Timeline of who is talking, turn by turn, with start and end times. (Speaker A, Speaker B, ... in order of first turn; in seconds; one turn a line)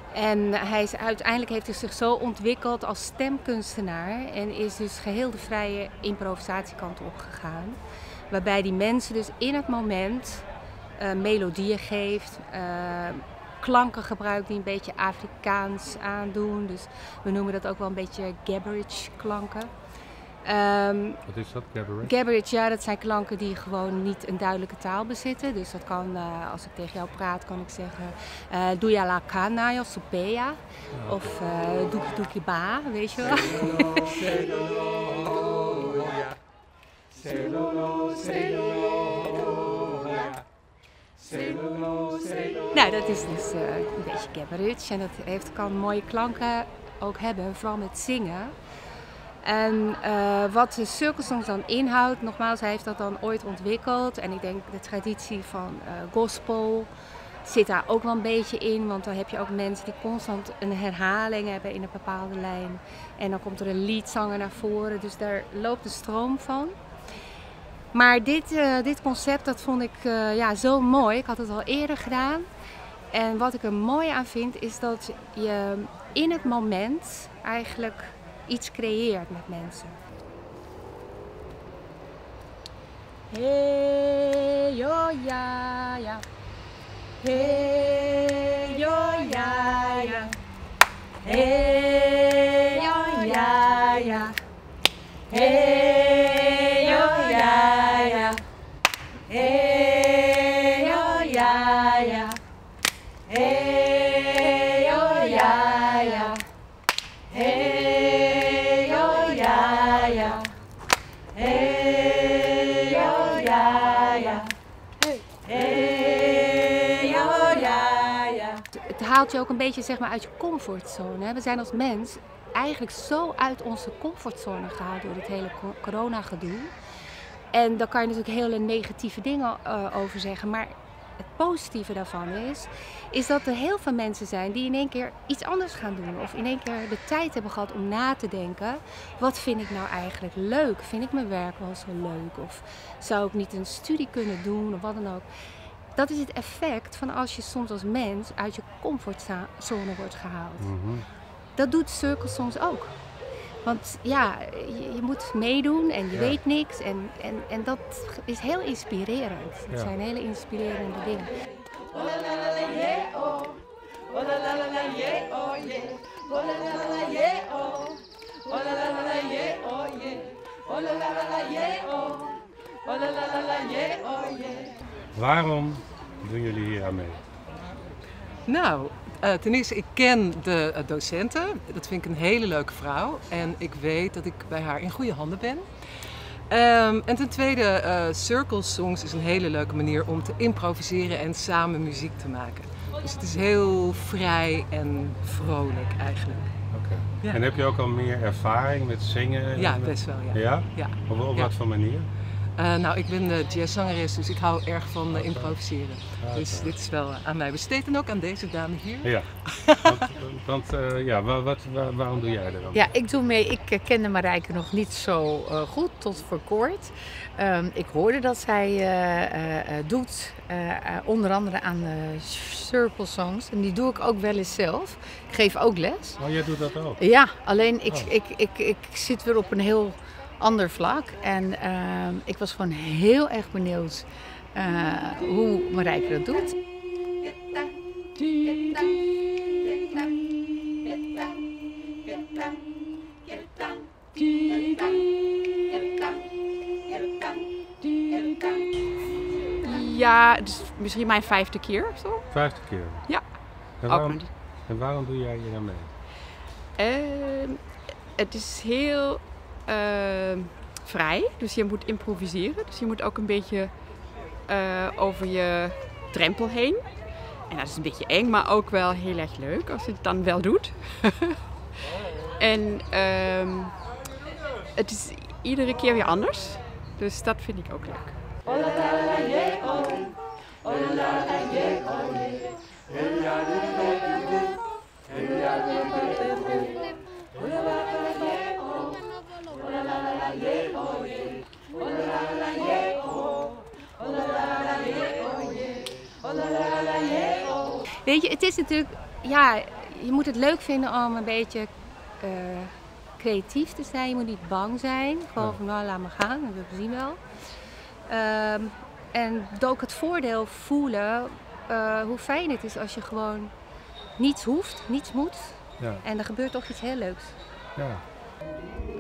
Speaker A: 0.1-7.8
Speaker A: 8.3-10.5
Speaker A: 11.0-19.7
Speaker A: 20.4-21.2
Speaker B: 21.2-22.2
Speaker A: 22.0-34.3
Speaker B: 30.9-31.2
Speaker A: 42.7-48.5
Speaker A: 49.4-56.9
Speaker A: 57.4-66.8
Speaker A: 67.9-72.5
Speaker A: 73.1-80.0
Speaker A: 83.3-86.2
Speaker A: 87.2-90.3
Speaker A: 91.2-94.3
Speaker A: 95.3-98.4
Speaker A: 99.3-102.4
Speaker A: 104.0-106.4
Speaker A: 108.9-110.4
Speaker A: 113.0-114.1
Speaker A: 118.7-126.7
Speaker A: 127.5-145.2
Speaker A: 145.9-150.7
Speaker B: 150.6-151.1
Speaker A: 151.6-153.0
Speaker A: 153.6-161.3
Speaker B: 156.1-156.4
Speaker B: 175.1-177.2
Speaker C: 178.4-185.7
Speaker C: 186.5-196.5
Speaker B: 196.7-202.1
Speaker C: 199.6-202.0
Speaker C: 202.6-209.8
Speaker B: 205.1-206.7
Speaker B: 209.0-212.8
Speaker D: 212.7-226.2
Speaker B: 226.2-227.0
Speaker D: 227.0-236.6
Speaker E: 249.6-254.3
Speaker B: 252.3-253.1
Speaker B: 253.8-255.9
Speaker E: 256.8-263.8
Speaker E: 264.4-271.4
Speaker E: 272.4-273.8
Speaker E: 274.8-278.1
Speaker A: 298.1-301.7
Speaker A: 302.2-307.2
Speaker A: 308.1-313.5
Speaker A: 314.2-317.4
Speaker B: 317.8-318.0